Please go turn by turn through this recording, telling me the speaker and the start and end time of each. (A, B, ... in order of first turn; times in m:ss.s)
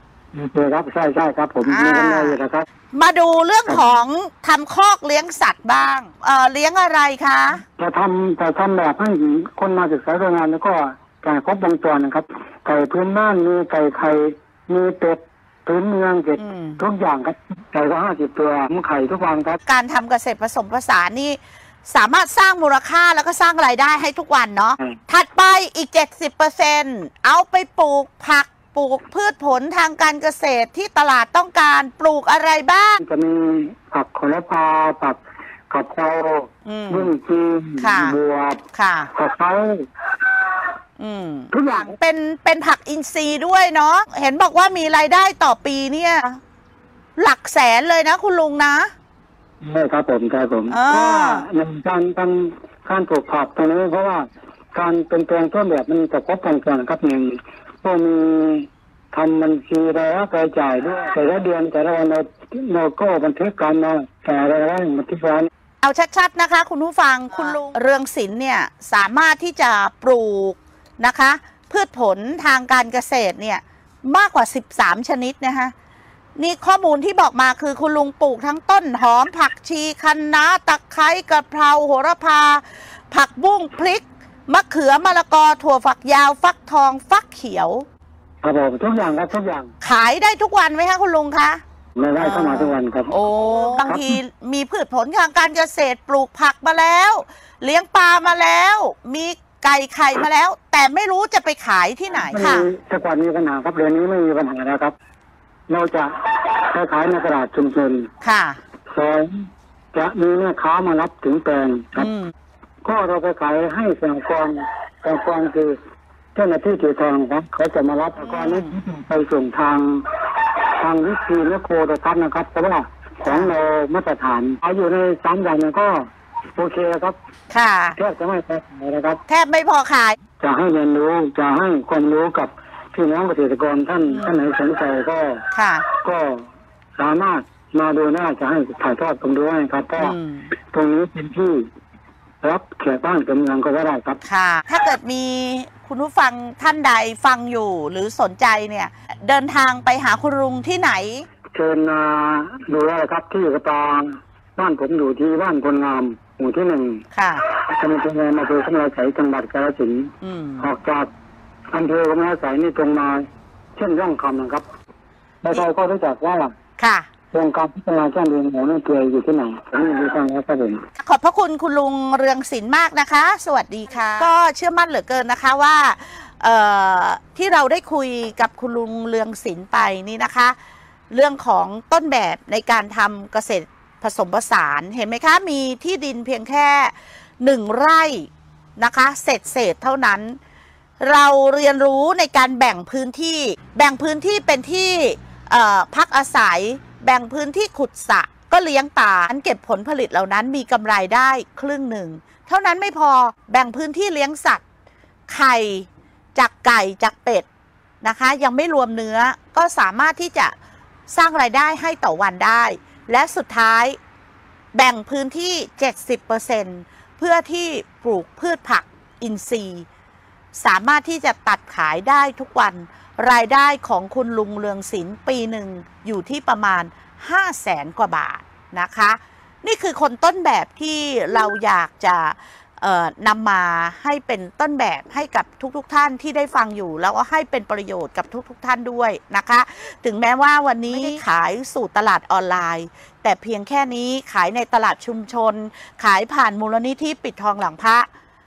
0:00.3-0:02.6 A
0:01.6-0:02.4 B
0:02.9-0:07.6 B
0:07.8-0:19.6 A
0:16.4-0:16.8 B
0:19.6-0:33.0 B
0:33.0-0:35.2 A
0:35.7-0:38.6 A
0:36.6-0:37.1 B
0:37.8-0:38.2 B
0:38.7-0:39.1 B
0:39.1-0:39.8 A
0:41.0-0:46.4 B
0:41.5-0:41.9 A
0:47.2-0:48.9 B
0:49.6-1:05.5 A
0:50.7-0:51.4 B
1:05.8-1:15.7 B
1:16.4-1:27.8 B
1:28.4-1:29.7 A
1:29.8-1:31.6 B
1:32.0-1:33.2 A
1:32.2-1:42.7 B
1:33.8-1:34.2 A
1:42.1-1:44.9 A
1:45.7-1:48.1 A
1:48.2-1:48.6 B
1:48.9-1:52.1 A
1:52.0-1:52.3 B
1:52.8-1:55.8 A
1:56.3-2:07.2 A
1:58.2-1:58.7 B
2:03.2-2:03.5 B
2:07.5-2:08.0 B
2:08.0-2:09.2 A
2:09.3-2:10.2 B
2:10.4-2:20.2 A
2:14.1-2:14.4 B
2:15.5-2:15.8 B
2:20.0-2:20.5 B
2:20.7-2:21.7 A
2:22.4-2:24.2 A
2:24.2-2:31.3 B
2:31.5-2:41.1 A
2:37.1-2:37.4 B
2:40.2-2:40.7 B
2:41.7-2:44.6 A
2:45.4-2:46.5 A
2:46.8-2:47.1 B
2:47.3-2:50.8 A
2:51.0-3:00.6 B
3:01.1-3:08.3 B
3:08.8-3:10.4 B
3:11.0-3:24.6 B
3:25.3-3:27.4 B
3:28.0-3:30.5 B
3:31.1-3:34.0 B
3:34.7-3:39.8 B
3:40.6-4:08.0 B